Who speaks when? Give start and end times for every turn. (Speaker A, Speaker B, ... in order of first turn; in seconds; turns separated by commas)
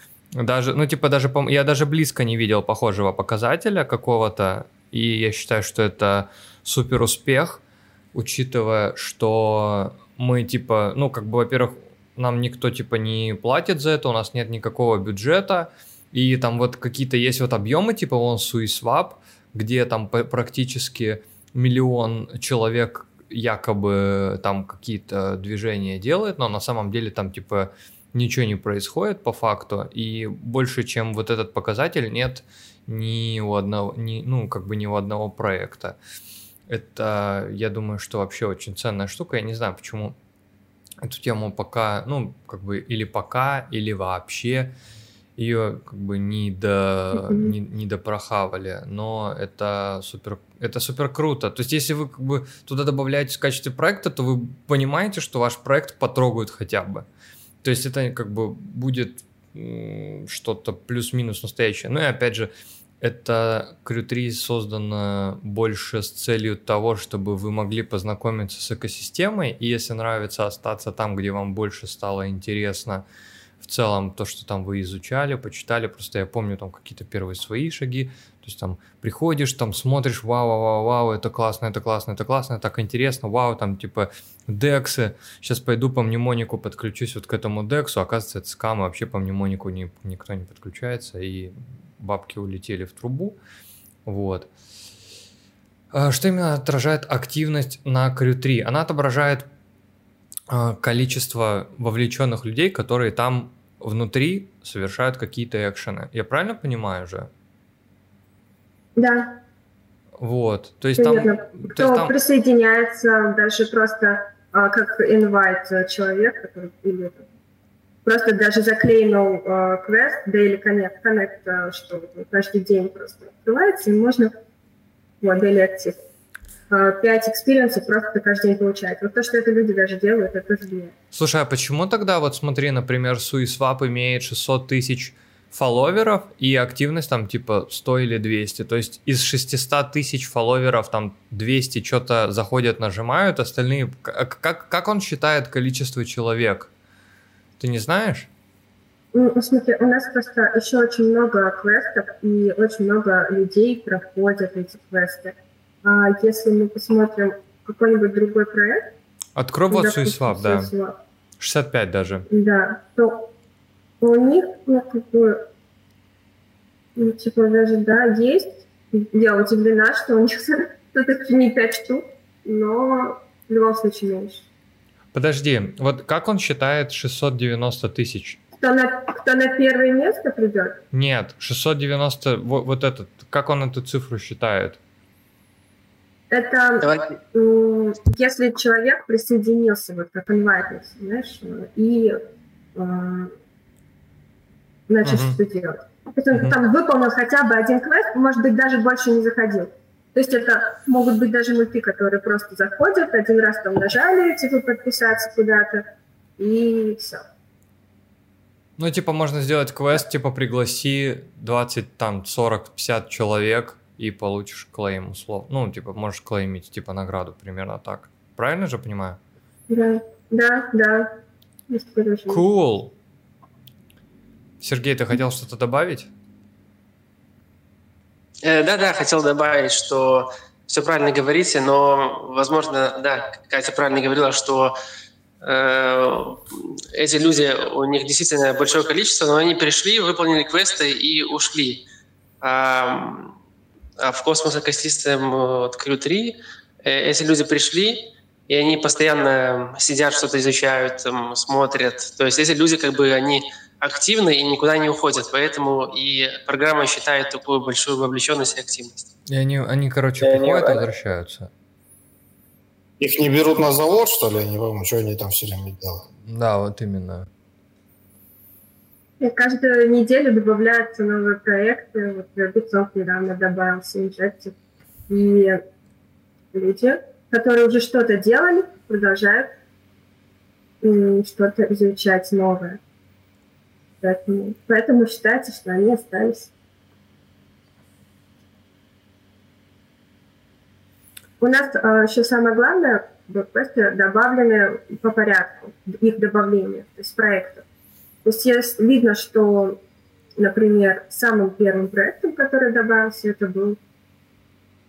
Speaker A: 0.4-7.6, Speaker A: 8.1-36.0, Speaker A: 36.7-40.2, Speaker A: 41.0-44.7, Speaker A: 45.4-57.1, Speaker B: 47.1-47.5, Speaker A: 57.6-73.0, Speaker A: 73.6-93.4, Speaker A: 94.1-94.5, Speaker A: 95.9-99.5, Speaker A: 100.5-107.3, Speaker B: 109.0-109.4, Speaker A: 110.2-112.2, Speaker B: 111.0-117.3, Speaker B: 118.0-124.3, Speaker B: 125.2-126.0, Speaker B: 126.7-130.9, Speaker A: 131.1-146.7, Speaker A: 147.6-148.3, Speaker B: 149.1-158.9, Speaker A: 159.4-160.7, Speaker B: 159.7-161.0, Speaker A: 161.4-162.3, Speaker B: 162.3-163.3, Speaker B: 164.0-165.4, Speaker B: 166.9-174.5, Speaker A: 175.1-178.4, Speaker B: 178.6-180.8, Speaker A: 180.9-184.8, Speaker B: 186.3-192.2, Speaker C: 186.8-187.2, Speaker B: 192.8-193.3, Speaker B: 194.9-205.8, Speaker A: 195.0-195.4, Speaker B: 206.4-207.2, Speaker A: 208.8-219.2, Speaker B: 219.7-221.2, Speaker B: 221.7-222.4, Speaker A: 222.3-222.9, Speaker A: 224.6-226.1, Speaker C: 228.4-234.7, Speaker C: 235.4-241.8, Speaker C: 242.4-243.3, Speaker C: 244.0-259.0, Speaker A: 259.3-261.5, Speaker D: 263.0-266.0, Speaker A: 266.2-267.3, Speaker B: 269.2-274.5, Speaker B: 275.1-275.6, Speaker B: 276.5-279.6, Speaker B: 280.8-282.8, Speaker B: 284.0-286.5, Speaker B: 291.4-297.6, Speaker B: 298.2-299.8, Speaker B: 300.4-303.8